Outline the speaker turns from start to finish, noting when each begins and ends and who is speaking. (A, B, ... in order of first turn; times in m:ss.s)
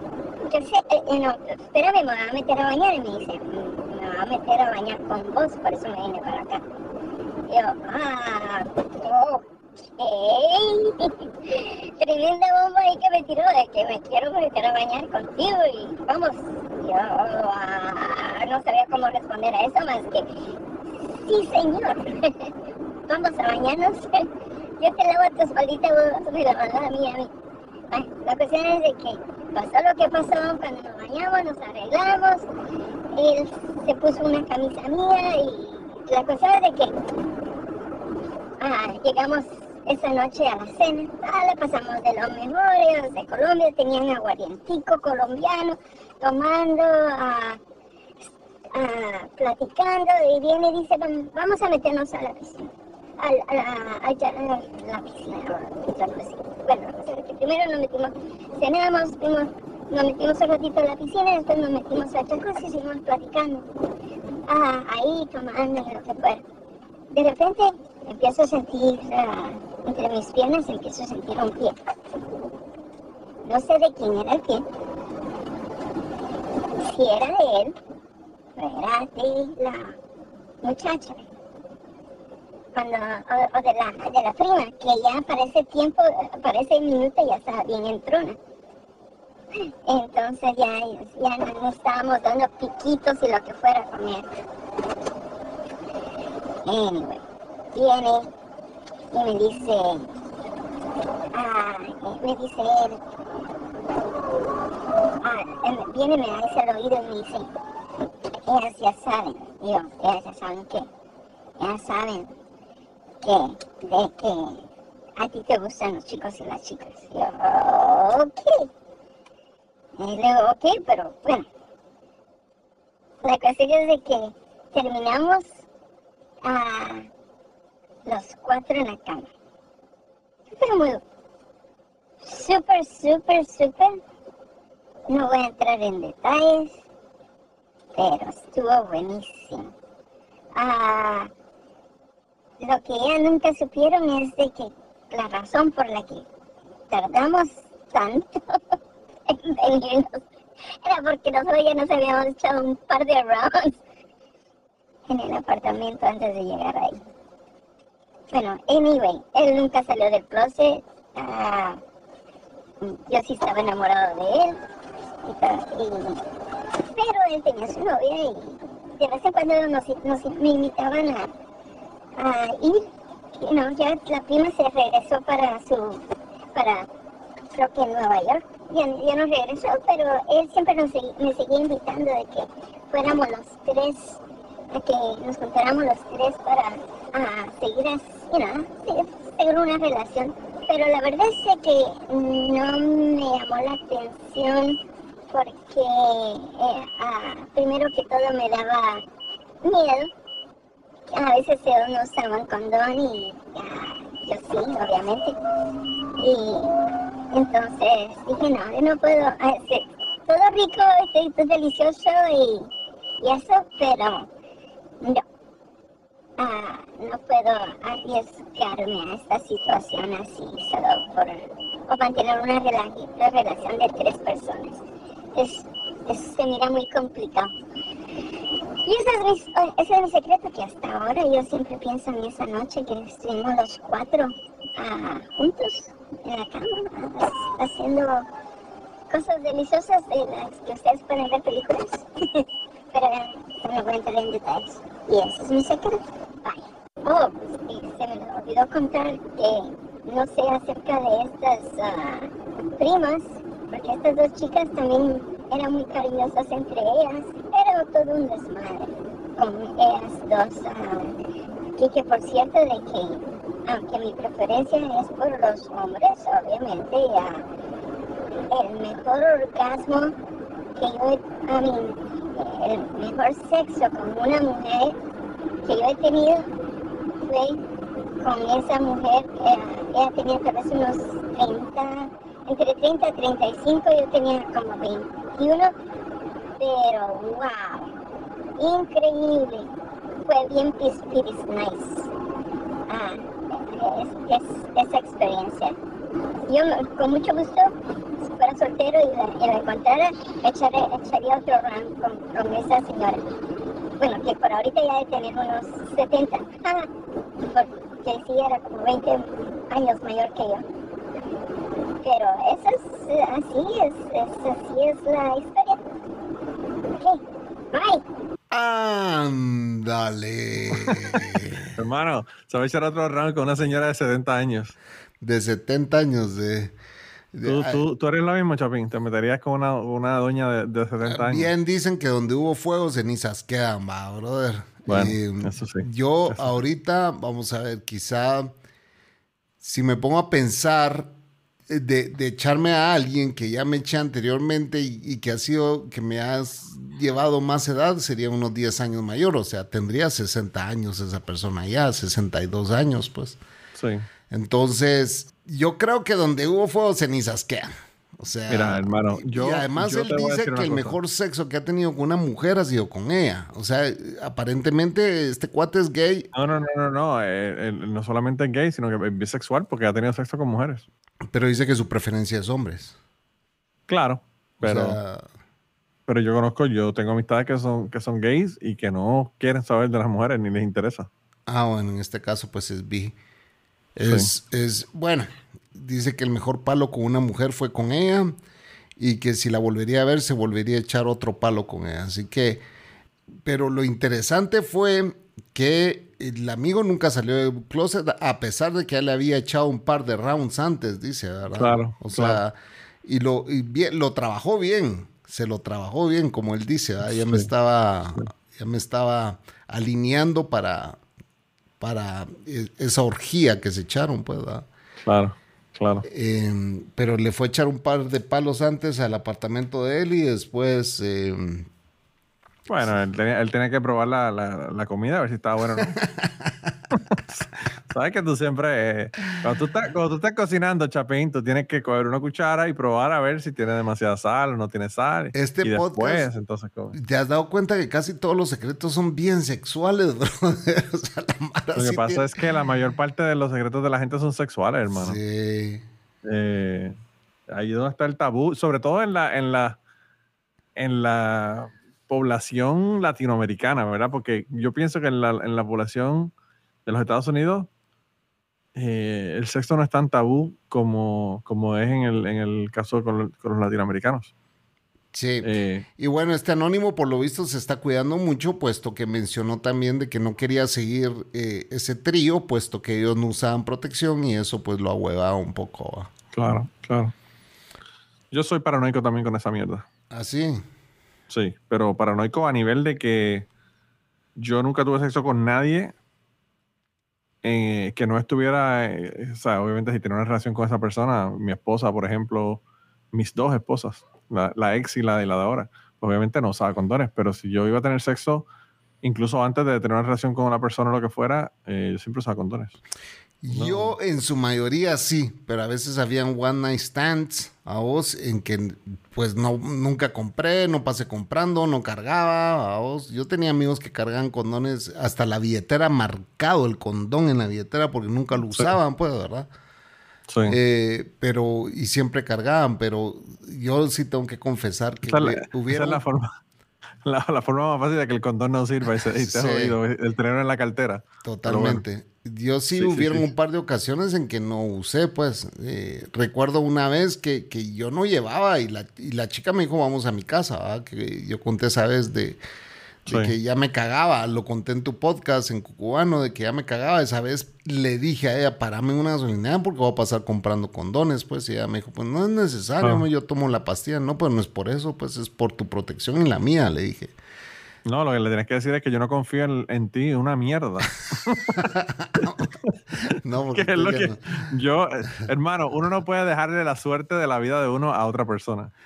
0:00.5-0:06.6 A
0:07.5-0:09.4 A
0:10.0-0:20.3 A
0:21.0-0:22.5 A
0:23.1-0:27.3 A
0:27.9-0:32.4 A
0:33.1-0:36.9 A
0:38.6-0:47.6 A
0:48.7-1:03.7 A
1:04.5-1:06.4 A
1:07.1-1:11.8 A
1:13.4-1:14.7 A
1:16.8-1:17.8 A
1:18.6-1:20.0 A
1:20.6-1:21.3 A
1:22.8-1:28.4 A
1:29.6-1:34.3 A
1:36.7-1:37.2 A
1:37.7-1:38.3 A
1:39.1-1:40.1 A
1:41.3-1:43.0 A
1:45.2-1:47.5 A
1:48.3-1:50.9 A
1:51.6-1:52.3 A
1:53.2-1:54.6 A
1:55.2-1:58.7 A
2:00.0-2:01.5 A
2:03.2-2:05.6 A
2:06.4-2:07.1 A
2:08.1-2:09.3 A
2:10.6-2:11.0 A
2:12.2-2:14.0 A
2:15.1-2:16.8 A
2:18.0-2:19.7 A
2:20.6-2:21.3 A
2:22.6-2:26.2 A
2:26.9-2:28.8 A
2:29.3-2:33.8 A
2:35.1-2:37.0 A
2:38.3-2:41.8 A
2:42.8-2:44.6 A
2:45.2-2:46.2 A
2:46.9-2:51.3 A
2:52.2-2:56.0 A
2:56.5-2:56.9 A
2:57.5-3:04.2 A
3:04.7-3:14.8 A
3:15.3-3:19.0 A
3:19.6-3:20.1 A
3:21.1-3:25.4 A
3:26.2-3:26.8 A
3:27.3-3:32.7 A
3:33.2-3:34.3 A
3:36.4-3:44.8 A
3:45.4-3:47.5 A
3:48.9-3:58.3 A
3:59.1-4:21.2 A
4:21.8-4:27.5 A
4:28.5-4:30.2 A
4:30.8-4:35.0 A
4:35.6-4:36.5 A
4:37.3-4:37.6 A
4:38.2-4:45.7 A
4:46.6-4:48.0 A
4:48.6-4:49.7 A
4:50.2-4:52.1 A
4:52.9-4:55.8 A
4:56.5-5:03.2 A
5:04.0-5:06.9 A
5:07.4-5:10.7 A
5:12.0-5:15.8 A
5:17.0-5:18.0 A
5:18.5-5:21.8 B
5:20.7-5:24.8 C
5:25.2-5:26.8 B
5:27.3-5:27.8 B
5:27.4-5:31.5 C
5:31.0-5:38.5 B
5:34.9-5:36.6 C
5:39.6-5:41.1 B
5:41.7-5:53.4 B
5:53.8-5:54.1 C
5:54.3-6:06.3 B
5:58.5-6:01.0 C
6:06.3-6:10.9 C
6:11.3-6:13.0 B
6:13.9-6:15.0 C
6:14.6-6:15.3 B
6:16.1-6:21.1 C
6:21.5-6:23.2 B
6:24.0-6:28.4 B
6:29.0-6:32.6 B
6:33.4-6:51.0 B
6:41.6-6:42.4 C
6:47.1-6:47.5 C
6:51.8-6:54.7 B
6:55.0-6:56.0 C
6:56.0-7:01.7 B
7:02.7-7:06.0 C
7:05.8-7:06.7 B
7:06.9-7:17.0 C
7:15.4-7:16.3 B
7:16.9-7:22.3 B
7:21.8-7:25.2 C
7:24.9-7:25.9 B
7:26.2-7:26.9 C
7:27.5-7:29.8 C
7:30.8-7:36.3 C
7:36.9-7:37.7 C
7:38.8-7:44.3 C
7:45.1-7:56.1 B
7:45.4-7:45.8 C
7:56.3-7:57.1 C
7:58.3-7:59.8 C
8:00.1-8:00.6 B
8:01.3-8:03.5 C
8:04.4-8:05.9 C
8:07.4-8:12.6 C
8:13.1-8:18.5 C
8:19.0-8:22.8 C
8:23.4-8:39.5 B
8:23.5-8:23.9 C
8:40.3-8:40.6 C
8:40.5-8:46.0 B
8:45.0-8:46.3 C
8:47.0-8:51.8 C
8:49.1-8:49.8 B
8:51.2-9:02.4 B
8:52.8-8:53.3 C
9:03.0-9:17.2 B
9:03.1-9:03.3 C
9:17.9-9:21.6 C
9:21.6-9:22.5 B
9:22.2-9:22.8 C
9:23.1-9:24.2 B
9:23.5-9:28.7 C